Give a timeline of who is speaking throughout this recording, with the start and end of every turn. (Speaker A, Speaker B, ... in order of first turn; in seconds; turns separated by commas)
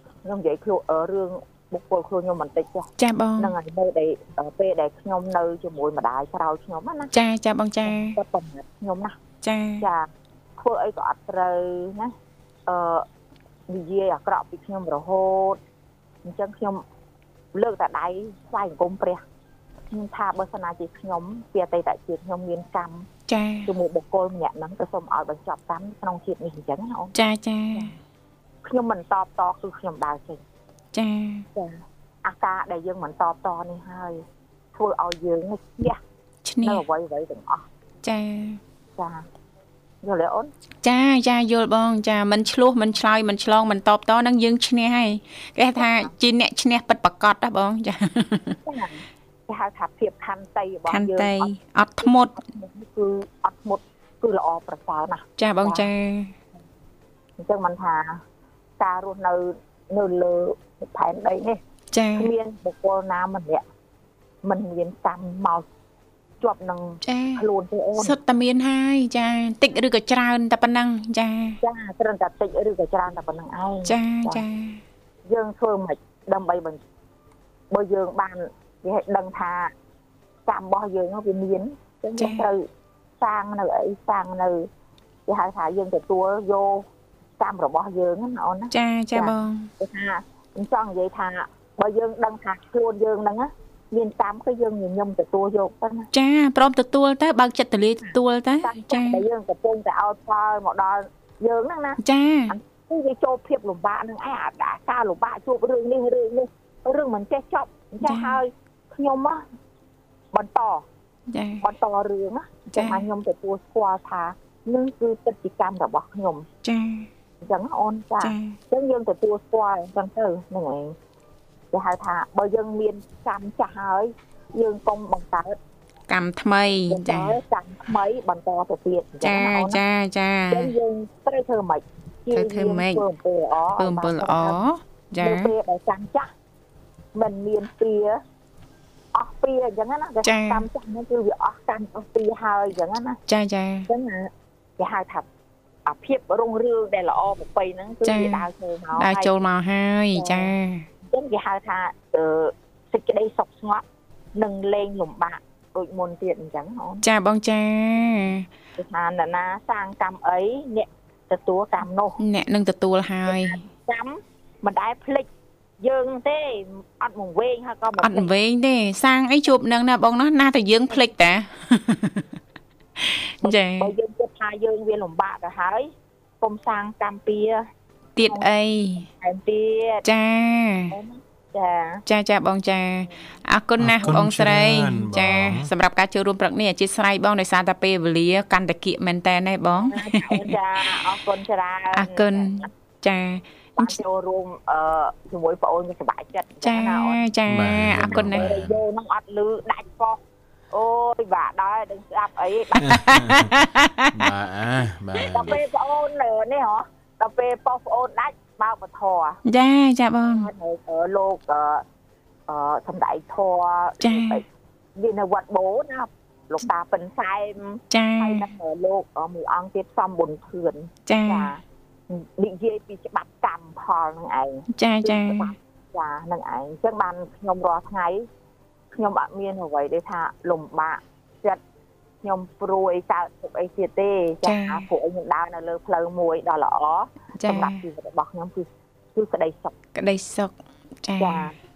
Speaker A: 0.2-7.1, Speaker B: 3.0-3.5, Speaker B: 7.1-8.2, Speaker A: 7.8-9.2, Speaker B: 9.4-9.8, Speaker A: 9.8-12.1, Speaker A: 12.7-13.1, Speaker A: 13.7-15.6, Speaker A: 16.2-16.8, Speaker A: 17.5-19.2, Speaker A: 19.9-23.1, Speaker B: 23.3-23.7, Speaker A: 23.6-27.1, Speaker B: 27.1-27.9, Speaker A: 28.6-30.4, Speaker B: 30.9-31.4, Speaker A: 31.5-34.2, Speaker A: 34.7-36.0, Speaker B: 36.4-36.8, Speaker A: 36.6-37.7, Speaker B: 38.0-38.6, Speaker A: 39.0-39.2, Speaker A: 40.0-40.5, Speaker B: 40.8-48.6, Speaker A: 45.8-46.1, Speaker A: 48.6-51.5, Speaker B: 50.9-52.4, Speaker A: 52.0-55.9, Speaker B: 55.4-56.3, Speaker A: 57.4-58.2, Speaker A: 58.8-61.6, Speaker B: 61.9-62.3, Speaker A: 62.2-63.6, Speaker A: 64.4-65.7, Speaker A: 66.4-68.1, Speaker B: 67.0-67.4, Speaker B: 68.0-71.6, Speaker A: 71.6-74.4, Speaker B: 73.8-74.8, Speaker A: 75.2-76.8, Speaker A: 77.7-79.7, Speaker A: 80.5-82.7, Speaker B: 82.2-82.5, Speaker A: 83.2-84.7, Speaker A: 85.3-86.8, Speaker A: 87.4-96.1, Speaker B: 88.7-89.7, Speaker B: 96.1-99.2, Speaker A: 98.0-109.4, Speaker B: 102.0-102.5, Speaker B: 108.0-108.4, Speaker A: 110.3-110.8, Speaker B: 111.3-111.7, Speaker A: 111.6-116.5, Speaker B: 112.7-113.0, Speaker B: 116.6-117.1, Speaker A: 117.4-120.9, Speaker B: 118.2-118.6, Speaker A: 121.7-125.6, Speaker B: 126.1-127.4, Speaker A: 126.9-129.8, Speaker B: 129.2-130.7, Speaker A: 130.5-134.6, Speaker B: 132.3-133.0, Speaker B: 133.8-135.5, Speaker A: 135.2-136.3, Speaker A: 137.1-138.2, Speaker A: 139.1-143.2, Speaker B: 140.2-140.7, Speaker B: 143.3-143.9, Speaker A: 143.9-145.3, Speaker A: 145.8-149.3, Speaker B: 148.0-150.9, Speaker A: 150.1-150.5, Speaker A: 151.1-153.8, Speaker A: 154.3-157.0, Speaker B: 157.0-158.5, Speaker A: 158.8-162.2, Speaker B: 162.2-163.6, Speaker A: 163.3-165.3, Speaker A: 165.8-168.3, Speaker B: 168.0-172.3, Speaker B: 173.0-173.9, Speaker A: 173.4-177.6, Speaker B: 178.2-179.1, Speaker A: 179.1-180.0, Speaker B: 180.0-180.9, Speaker A: 180.9-182.0, Speaker B: 182.1-191.0, Speaker C: 183.8-185.7, Speaker A: 189.8-192.7, Speaker B: 191.9-194.0, Speaker A: 193.8-200.2, Speaker B: 196.6-198.5, Speaker C: 197.5-198.8, Speaker A: 200.7-203.2, Speaker C: 202.8-203.5, Speaker B: 202.8-204.3, Speaker C: 204.1-205.6, Speaker A: 205.2-209.4, Speaker B: 209.4-210.5, Speaker A: 210.2-211.8, Speaker A: 212.5-214.4, Speaker B: 214.0-214.4, Speaker A: 214.9-228.3, Speaker B: 217.9-218.5, Speaker B: 221.1-221.5, Speaker B: 224.7-225.5, Speaker A: 228.9-231.6, Speaker A: 232.2-239.7, Speaker B: 234.4-234.9, Speaker B: 237.3-237.8, Speaker B: 239.9-241.5, Speaker A: 241.2-241.5